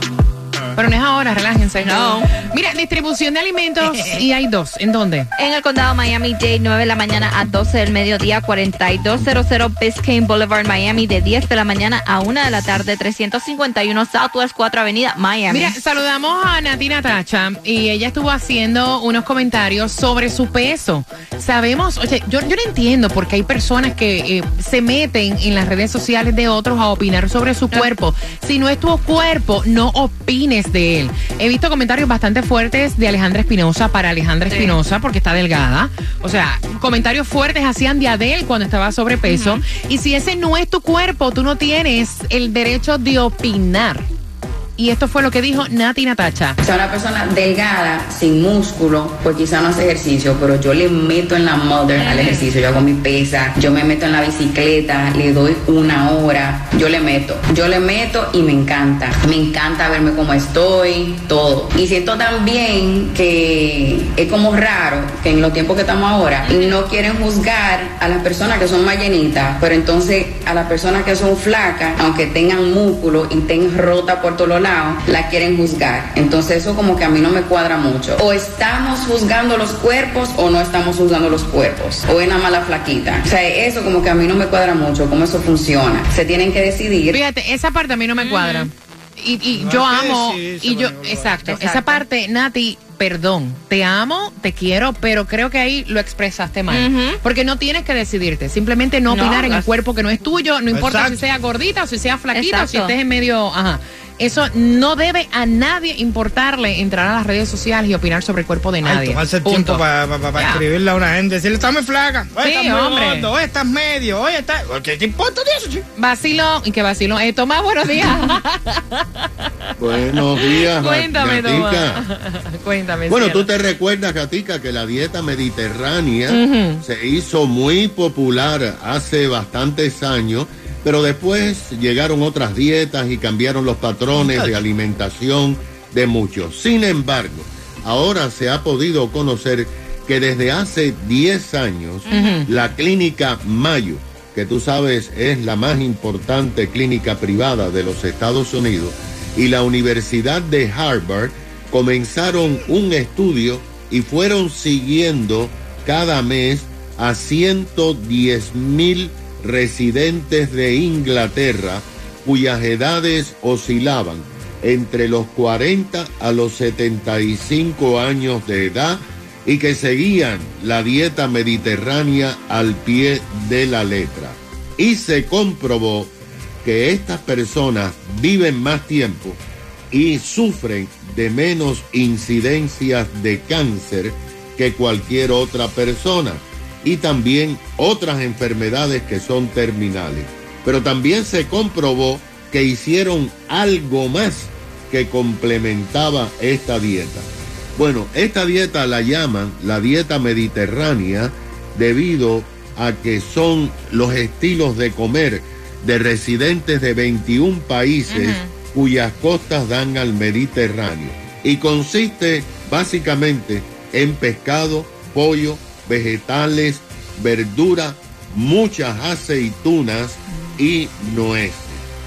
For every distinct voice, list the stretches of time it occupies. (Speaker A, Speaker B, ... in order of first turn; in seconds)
Speaker A: 0.8-5.3, 15.5-44.0, 44.8-46.6, 87.1-109.8, 110.3-110.6, 112.4-113.3, 116.0-119.0, 120.4-123.5, 126.3-126.8, 142.1-142.5, 208.1-208.5
Speaker B: 1.8-2.3, 5.4-15.7, 34.5-34.8, 39.2-39.6, 52.0-52.5, 66.5-66.8, 88.2-88.7, 91.5-92.0, 96.7-97.2, 99.1-99.7, 102.3-102.9, 142.1-142.4
Speaker C: 46.6-87.2
Speaker D: 89.5-91.4, 100.7-101.2, 108.8-115.8, 134.2-134.5
Speaker E: 119.8-122.1, 123.1-179.4, 179.9-221.8